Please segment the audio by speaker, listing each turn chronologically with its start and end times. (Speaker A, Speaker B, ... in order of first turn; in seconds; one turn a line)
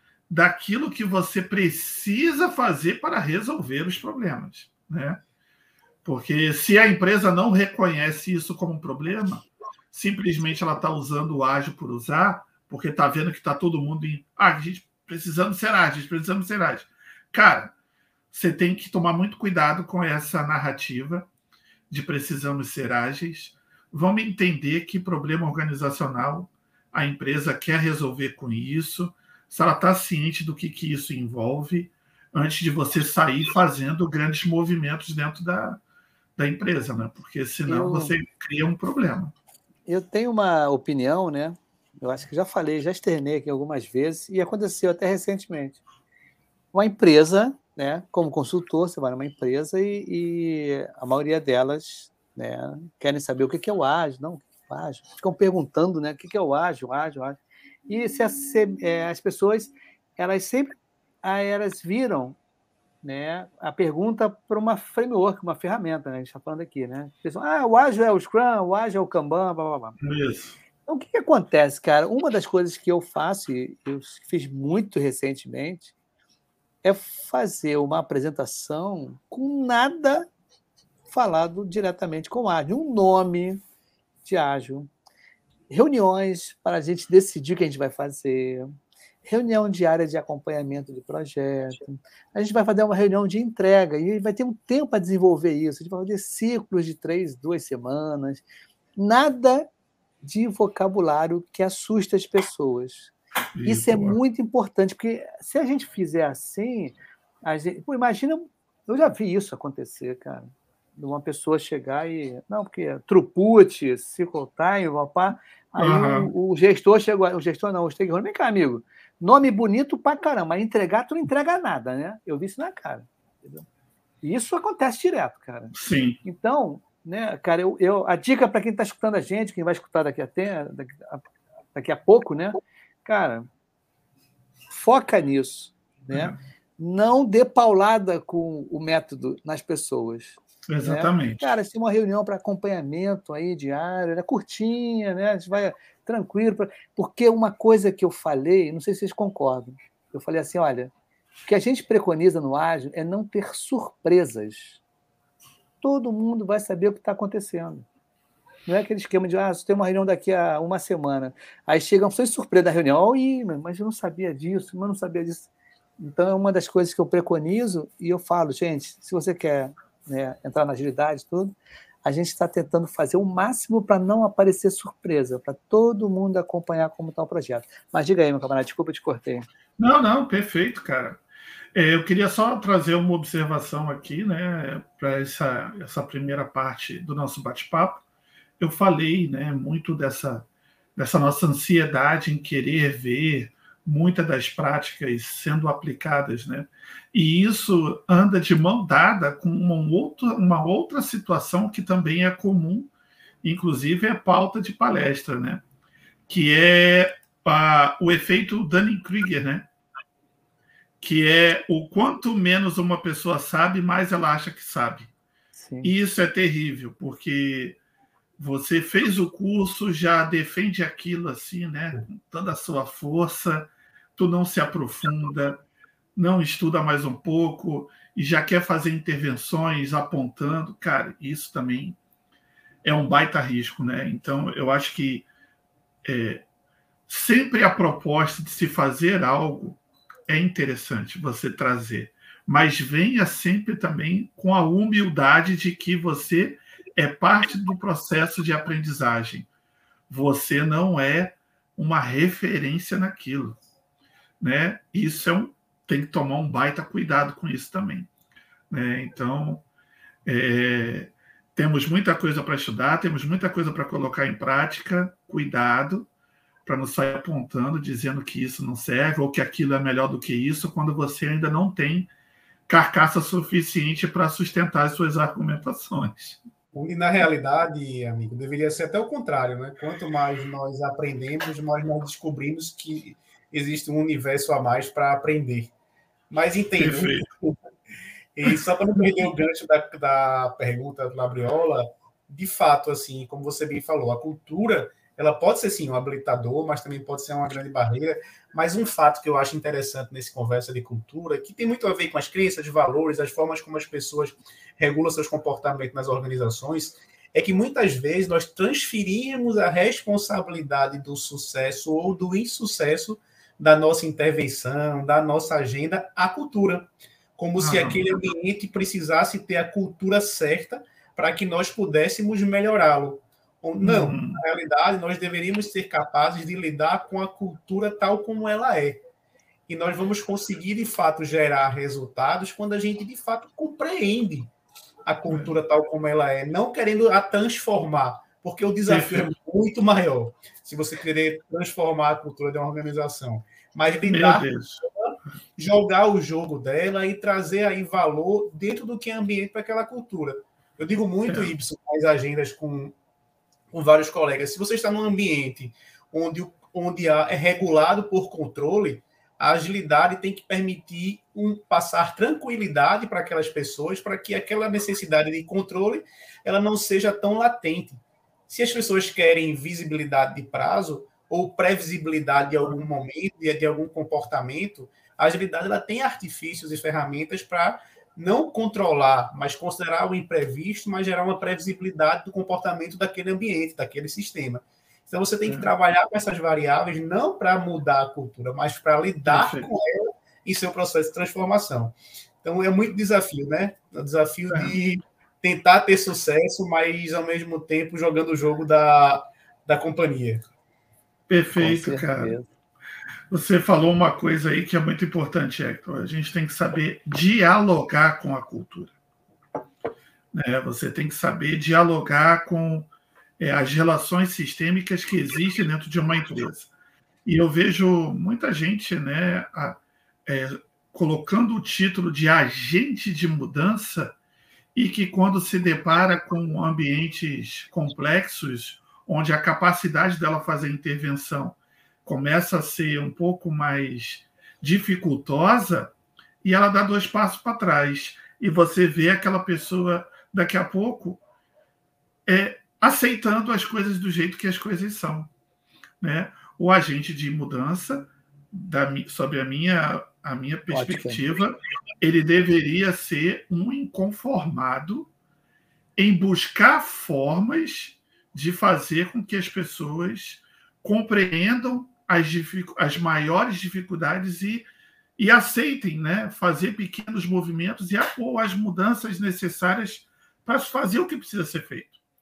Speaker A: 0.3-5.2
Speaker A: 6.0-17.7
Speaker A: 18.3-21.3
Speaker A: 21.9-35.8
Speaker A: 36.4-39.3
Speaker B: 37.7-38.1
Speaker B: 39.9-45.8
Speaker B: 46.7-62.4
Speaker B: 63.0-70.0
Speaker A: 70.0-70.6
Speaker B: 70.9-75.9
Speaker B: 76.8-80.3
Speaker B: 81.1-83.6
Speaker B: 84.2-84.9
Speaker B: 85.7-88.7
Speaker B: 89.2-98.5
Speaker B: 99.0-99.7
Speaker B: 100.2-103.1
Speaker A: 103.5-104.2
Speaker B: 103.6-123.7
Speaker A: 115.8-116.3
Speaker B: 124.2-131.2
Speaker A: 125.7-126.2
Speaker B: 131.7-133.5
Speaker B: 134.7-150.9
Speaker A: 136.1-136.4
Speaker A: 140.7-141.4
Speaker B: 151.5-154.8
Speaker B: 155.8-157.9
Speaker B: 158.7-165.5
Speaker B: 166.0-179.5
Speaker A: 179.8-181.2
Speaker A: 181.7-188.0
Speaker A: 188.6-202.9
Speaker A: 203.4-205.6
Speaker A: 206.3-209.7
Speaker A: 211.0-215.1
Speaker B: 215.6-215.9
Speaker A: 215.8-217.8
Speaker A: 218.4-225.6
Speaker A: 226.2-232.0
Speaker A: 232.8-235.3
Speaker A: 236.0-236.4
Speaker A: 237.1-249.5
Speaker A: 250.1-253.6
Speaker A: 254.4-258.1
Speaker A: 258.7-259.6
Speaker A: 260.2-266.1
Speaker A: 266.6-272.1
Speaker A: 272.7-276.4
Speaker C: 276.7-285.7
Speaker C: 286.3-287.6
Speaker A: 286.8-287.3
Speaker C: 288.4-329.0
Speaker A: 317.6-318.0
Speaker A: 323.8-324.4
Speaker C: 329.7-334.5
Speaker C: 335.1-344.5
Speaker A: 335.3-335.5
Speaker A: 338.9-339.3
Speaker A: 344.0-344.8
Speaker C: 345.0-352.9
Speaker A: 351.3-351.5
Speaker C: 353.7-400.4
Speaker A: 385.5-385.7
Speaker A: 389.3-389.7
Speaker A: 394.5-394.8
Speaker A: 401.3-402.4
Speaker B: 401.6-402.5
Speaker A: 403.3-408.9
Speaker A: 410.3-416.7
Speaker A: 417.2-424.1
Speaker A: 424.8-441.2
Speaker A: 442.3-445.3
Speaker A: 446.0-455.1
Speaker B: 450.7-451.2
Speaker A: 456.0-472.0